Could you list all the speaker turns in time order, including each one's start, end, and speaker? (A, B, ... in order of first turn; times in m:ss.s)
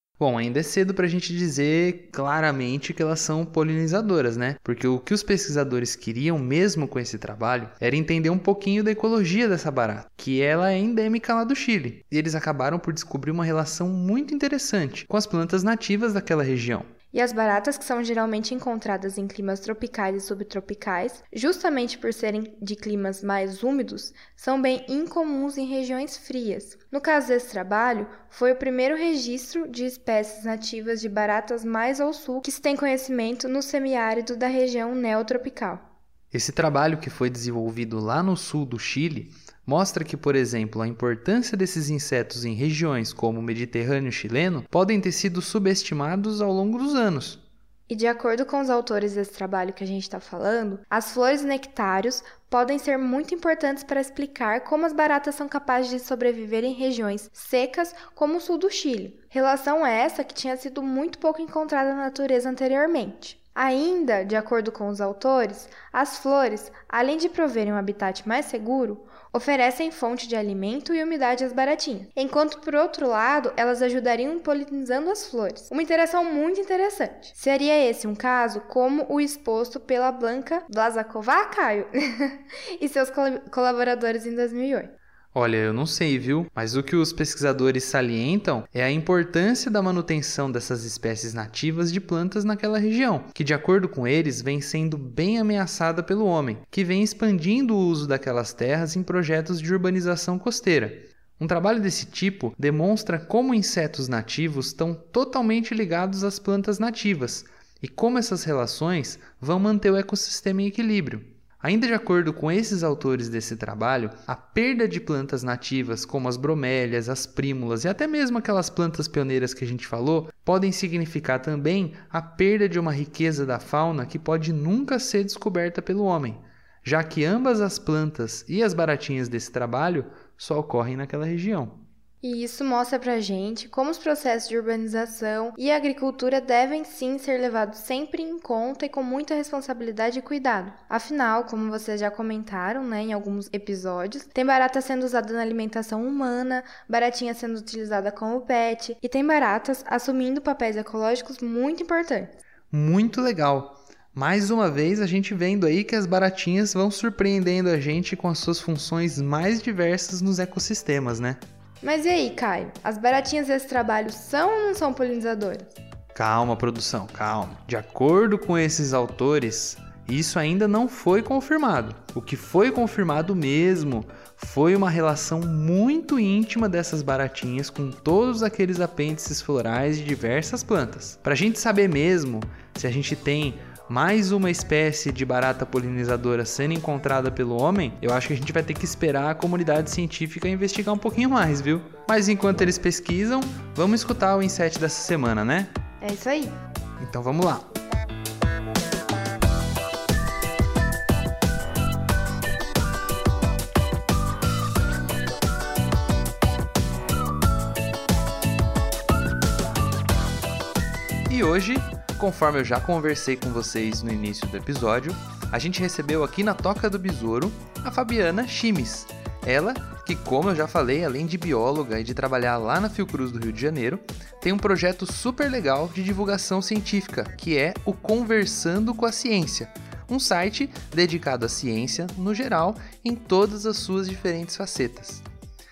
0:00.2-0:16.9 A
0:17.1-0:35.8 B
0:36.3-0:47.4 A
0:47.9-1:24.9 B
1:25.3-2:11.8 A
2:12.2-2:32.4 B
2:32.7-2:41.4 A
2:41.8-2:45.7 B
2:46.2-3:15.7 A
3:16.0-3:16.6 B
3:17.0-3:17.7 A
3:31.3-3:55.2 A